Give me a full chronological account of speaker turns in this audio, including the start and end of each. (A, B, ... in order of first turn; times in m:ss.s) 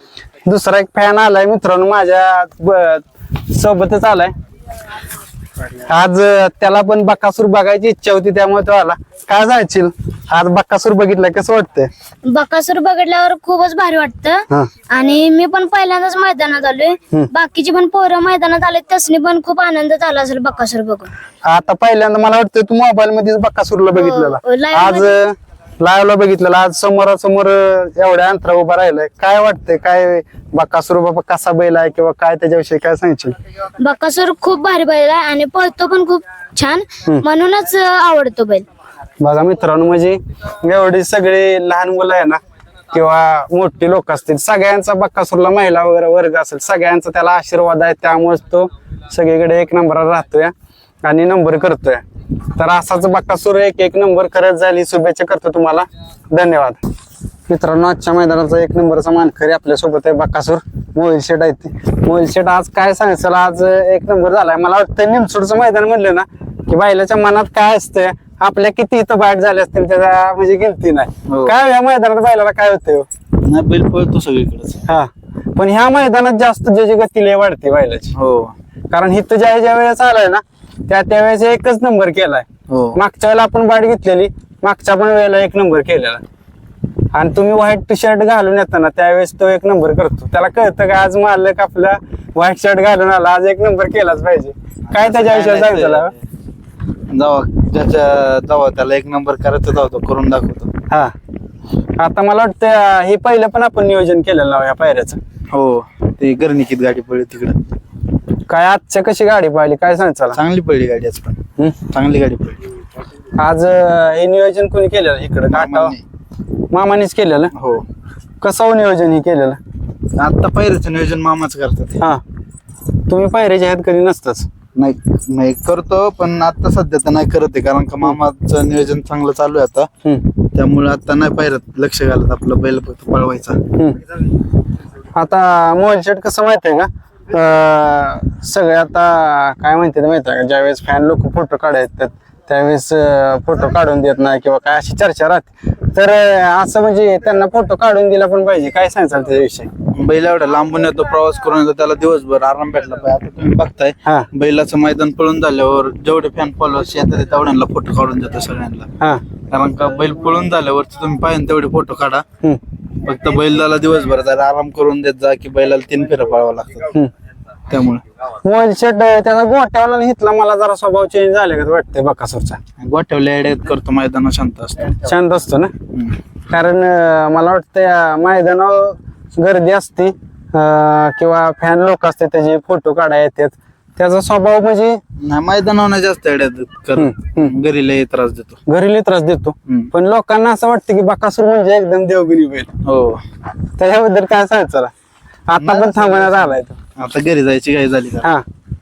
0:00.5-0:04.3 A
0:05.7-0:11.9 A
0:12.2-0:21.1 B
0:21.4-0:33.3 A
0:23.9-0:25.1 B
0:33.8-0:38.7 B
0:39.2-0:42.4 A
0:42.9-0:50.5 A
0:51.0-0:52.0 A
0:52.6-0:56.8 A
0:57.5-1:13.1 A
1:11.3-1:11.5 C
1:13.4-1:14.8 C
1:14.9-1:18.1 A
1:18.2-1:18.6 C
1:18.9-1:26.2 A
1:22.7-1:23.0 C
1:27.1-1:36.1 A
1:34.9-1:36.1 C
1:37.1-1:40.7 C
1:42.0-1:45.2 A
1:45.5-1:47.6 C
1:48.5-1:50.4 A
1:50.3-1:52.6 C
1:53.4-1:56.0 A
1:55.5-1:56.0 C
1:56.7-1:57.5 A
1:57.6-1:57.9 C
1:58.4-1:59.6 A
2:00.2-2:02.0 C
2:03.1-2:04.5 A
2:04.8-2:09.9 C
2:10.5-2:13.6 C
2:13.7-2:14.0 A
2:15.1-2:29.7 A
2:29.9-2:38.9 C
2:39.5-2:42.2 C
2:43.0-2:46.9 C
2:47.7-2:48.0 C
2:48.4-2:52.6 A
2:52.8-2:55.0 C
2:55.0-2:55.7 A
2:56.5-3:05.0 A
3:05.2-3:08.6 C
3:07.0-3:07.5 A
3:08.7-3:12.7 A
3:12.8-3:13.2 C
3:13.8-3:14.9 A
3:15.5-3:16.8 A
3:15.6-3:18.3 C